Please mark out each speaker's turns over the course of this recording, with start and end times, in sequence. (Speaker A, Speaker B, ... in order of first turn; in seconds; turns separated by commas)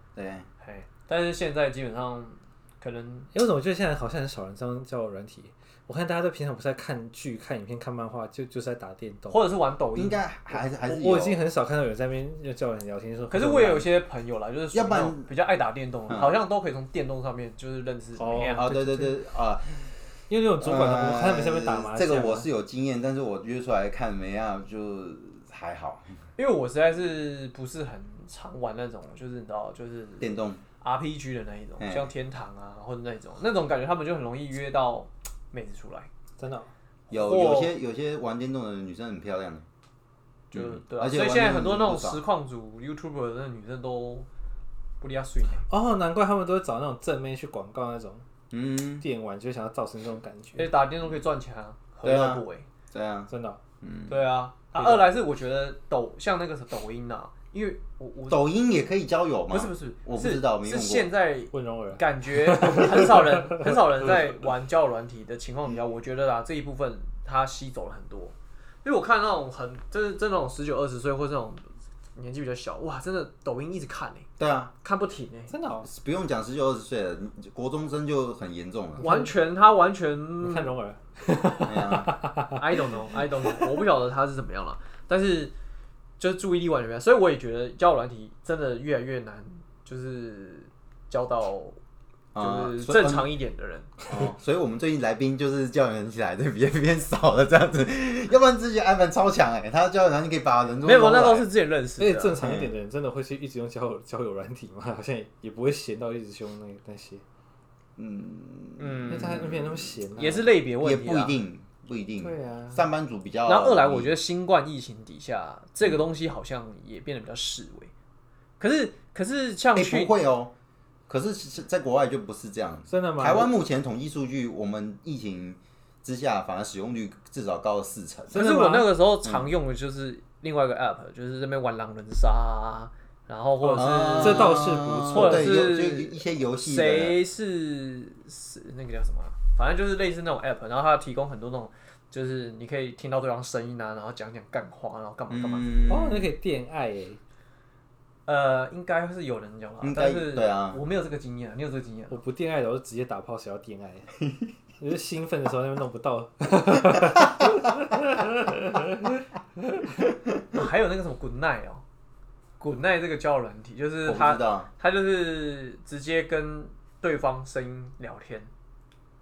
Speaker A: 0.1-0.5, Speaker B: 0.6-3.3, Speaker C: 3.3-9.4, Speaker B: 9.3-10.2, Speaker A: 9.9-11.4, Speaker C: 10.8-13.8, Speaker B: 13.3-18.7, Speaker A: 14.7-15.3, Speaker A: 16.1-16.4, Speaker C: 18.2-19.1, Speaker A: 18.5-19.9, Speaker C: 20.3-22.5, Speaker A: 20.6-26.1, Speaker B: 26.4-36.1, Speaker A: 30.2-30.6, Speaker A: 31.8-32.1, Speaker C: 36.4-36.7, Speaker B: 37.1-37.7, Speaker A: 37.1-39.6, Speaker A: 40.5-42.2, Speaker B: 40.5-44.3, Speaker B: 45.0-45.6, Speaker C: 45.7-48.2, Speaker A: 48.5-49.0, Speaker C: 49.0-50.7, Speaker B: 50.5-52.6, Speaker A: 52.0-54.2, Speaker C: 53.3-53.6, Speaker B: 54.1-58.5, Speaker C: 54.7-55.1, Speaker A: 58.3-61.1, Speaker B: 59.5-71.6, Speaker C: 61.5-63.8, Speaker B: 72.2-74.3, Speaker A: 74.4-74.7, Speaker B: 74.8-75.5, Speaker C: 75.5-75.9, Speaker A: 75.8-79.0, Speaker C: 79.0-79.3, Speaker B: 79.0-80.7, Speaker C: 80.4-82.6, Speaker A: 81.6-82.2, Speaker B: 82.5-85.5, Speaker B: 86.2-91.8, Speaker A: 92.3-93.3, Speaker B: 92.4-93.9, Speaker A: 94.1-101.5, Speaker B: 100.8-102.4, Speaker C: 102.0-107.2, Speaker A: 102.4-102.7, Speaker A: 108.0-114.1, Speaker B: 108.8-109.4, Speaker C: 109.1-110.5, Speaker B: 110.2-111.4, Speaker C: 112.2-112.8, Speaker B: 113.5-117.9, Speaker B: 118.6-120.2, Speaker A: 119.7-120.5, Speaker A: 121.1-128.3, Speaker C: 122.9-123.5, Speaker C: 128.3-128.9, Speaker B: 128.3-145.9, Speaker A: 129.2-129.5, Speaker C: 133.6-135.7, Speaker A: 133.8-137.2, Speaker A: 145.3-146.3, Speaker C: 145.9-147.2, Speaker B: 148.3-152.2, Speaker A: 149.8-150.8, Speaker C: 152.1-154.1, Speaker C: 154.8-159.9, Speaker B: 160.5-161.8, Speaker B: 162.6-168.5, Speaker A: 164.1-164.7